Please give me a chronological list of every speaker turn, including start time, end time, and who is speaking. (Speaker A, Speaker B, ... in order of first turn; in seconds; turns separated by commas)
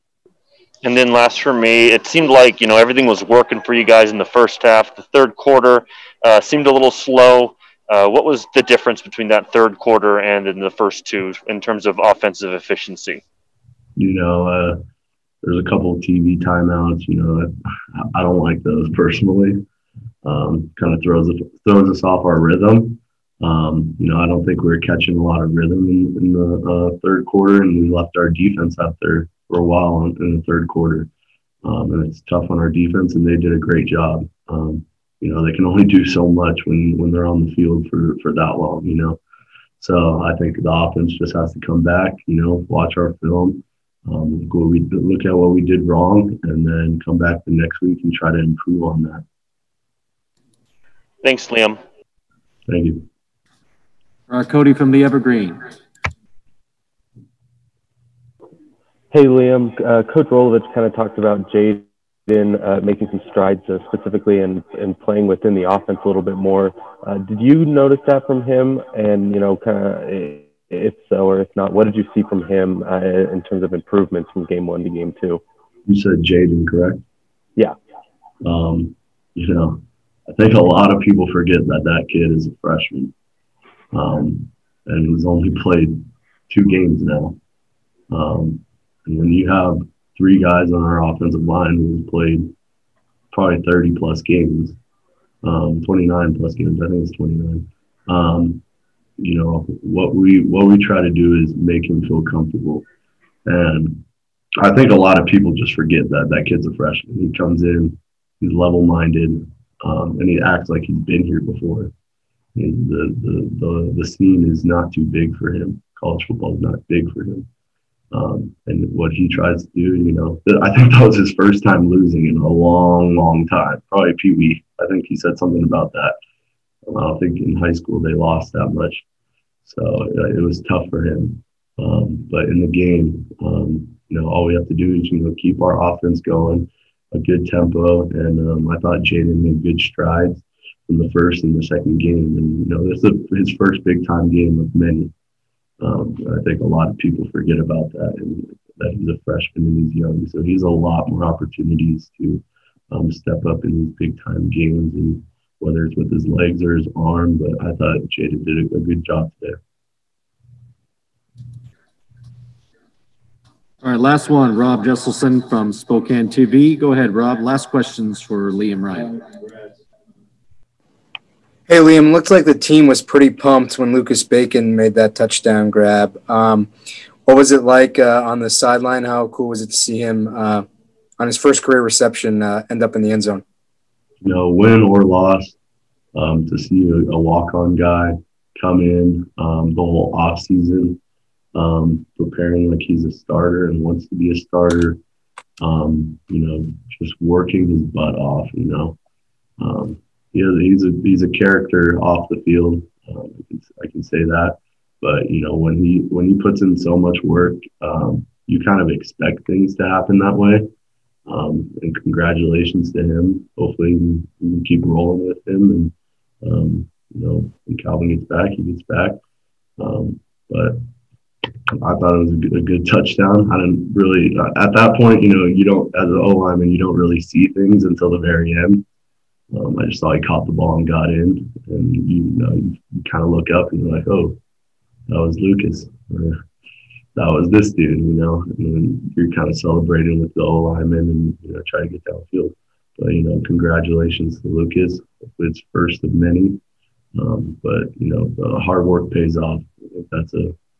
Speaker A: 0.8-13.2, Speaker B: 14.0-14.8, Speaker B: 15.4-19.6, Speaker B: 20.2-31.1, Speaker B: 31.6-39.2, Speaker B: 39.8-49.2, Speaker A: 51.2-51.8, Speaker B: 52.7-53.0, Speaker C: 54.3-55.6, Speaker D: 59.1-75.4, Speaker B: 75.8-77.0, Speaker B: 78.4-83.1, Speaker B: 83.9-87.4, Speaker B: 88.1-92.5, Speaker B: 93.3-94.8, Speaker B: 95.4-98.6, Speaker B: 99.2-102.8, Speaker B: 103.4-104.0, Speaker B: 104.6-111.9, Speaker B: 112.5-117.5, Speaker B: 118.1-126.2, Speaker B: 126.9-129.0, Speaker B: 129.6-145.1, Speaker B: 145.8-159.6, Speaker C: 163.8-169.2, Speaker E: 171.7-176.7, Speaker E: 177.2-180.6, Speaker E: 181.2-183.4, Speaker B: 184.2-185.6, Speaker B: 186.1-191.0, Speaker B: 191.5-195.0, Speaker B: 195.6-199.0, Speaker B: 199.6-210.7, Speaker B: 211.3-219.2, Speaker B: 219.8-220.8, Speaker B: 221.8-228.8, Speaker B: 229.5-234.4, Speaker B: 235.1-236.4, Speaker B: 237.1-246.6, Speaker B: 247.1-250.5